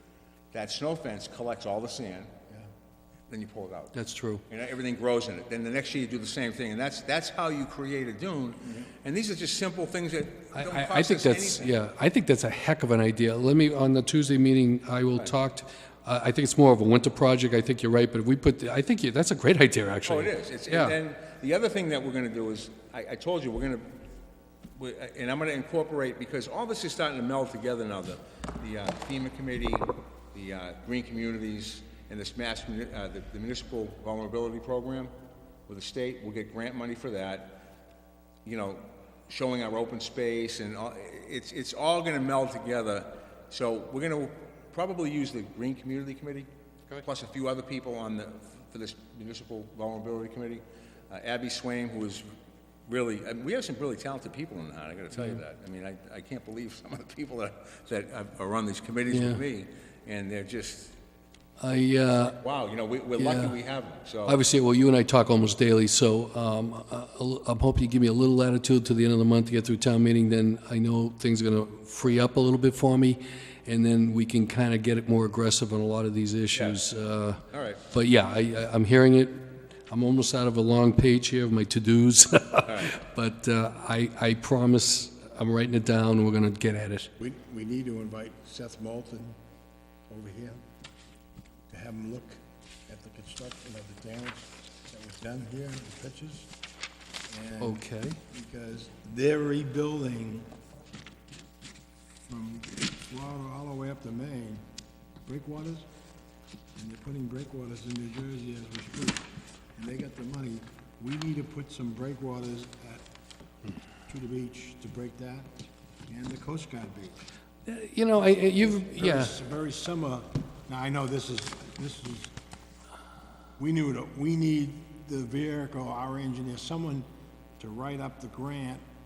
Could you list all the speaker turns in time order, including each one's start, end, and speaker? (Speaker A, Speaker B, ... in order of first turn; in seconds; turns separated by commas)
Speaker A: 0.5-2.3, Speaker A: 3.3-4.0, Speaker B: 3.9-4.4, Speaker A: 4.5-11.7, Speaker B: 10.6-21.0, Speaker A: 20.1-23.9, Speaker A: 24.8-35.1, Speaker A: 35.7-37.6, Speaker A: 38.5-46.5, Speaker A: 47.0-52.3, Speaker A: 52.9-61.0, Speaker B: 59.1-59.4, Speaker B: 61.6-62.4, Speaker A: 62.4-64.4, Speaker B: 63.2-63.6, Speaker B: 64.3-87.1, Speaker A: 76.5-76.8, Speaker A: 77.5-77.8, Speaker A: 82.7-83.0, Speaker C: 87.2-89.4, Speaker C: 90.1-90.6, Speaker C: 91.7-96.5, Speaker C: 97.3-100.5, Speaker B: 97.6-98.2, Speaker C: 102.3-104.6, Speaker C: 105.3-105.9, Speaker C: 106.8-113.0, Speaker C: 114.1-115.5, Speaker C: 116.1-117.2, Speaker B: 117.7-119.3, Speaker C: 118.6-122.3, Speaker C: 123.6-127.1, Speaker C: 127.6-128.8